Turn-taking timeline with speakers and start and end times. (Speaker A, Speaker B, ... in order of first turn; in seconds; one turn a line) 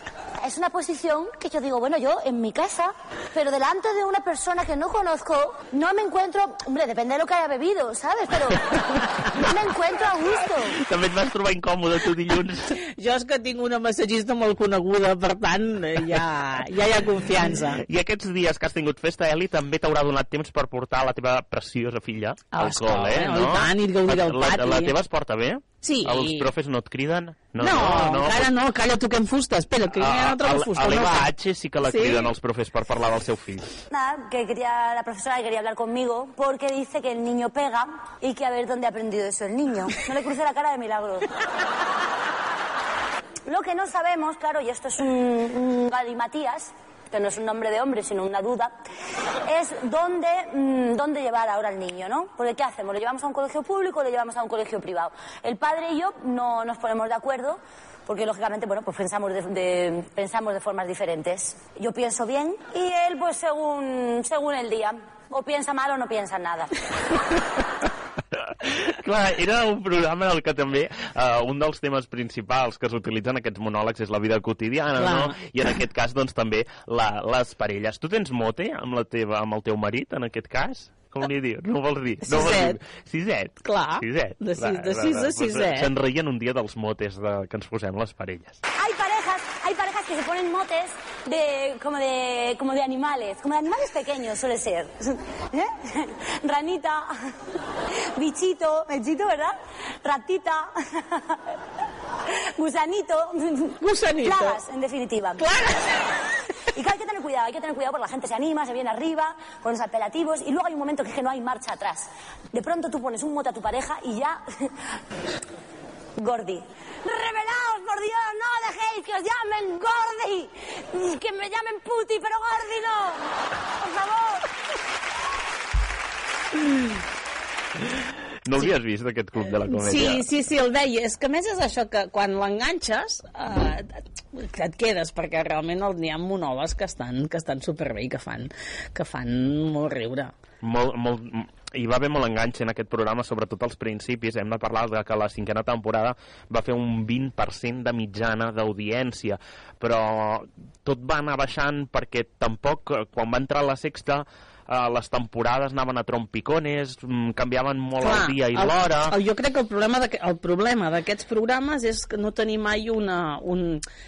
Speaker A: 0.4-10.8
Speaker B: 10.7-12.7
Speaker C: 12.9-17.8
Speaker B: 17.8-28.5
Speaker C: 22.5-25.0
Speaker C: 25.8-26.5
Speaker C: 27.6-32.3
Speaker B: 29.9-33.7
Speaker A: 33.9-41.3
Speaker A: 43.5-48.7
Speaker A: 49.4-66.7
Speaker B: 68.5-88.6
Speaker C: 75.0-75.3
Speaker C: 82.2-82.8
Speaker C: 83.6-85.9
Speaker A: 88.8-97.1
Speaker A: 98.2-101.4
Speaker A: 102.3-105.4
Speaker C: 103.8-104.6
Speaker C: 105.4-106.0
Speaker A: 106.8-114.7
Speaker A: 116.2-124.5
Speaker B: 128.4-130.2
Speaker C: 129.7-140.3
Speaker B: 140.6-159.2
Speaker C: 158.0-163.8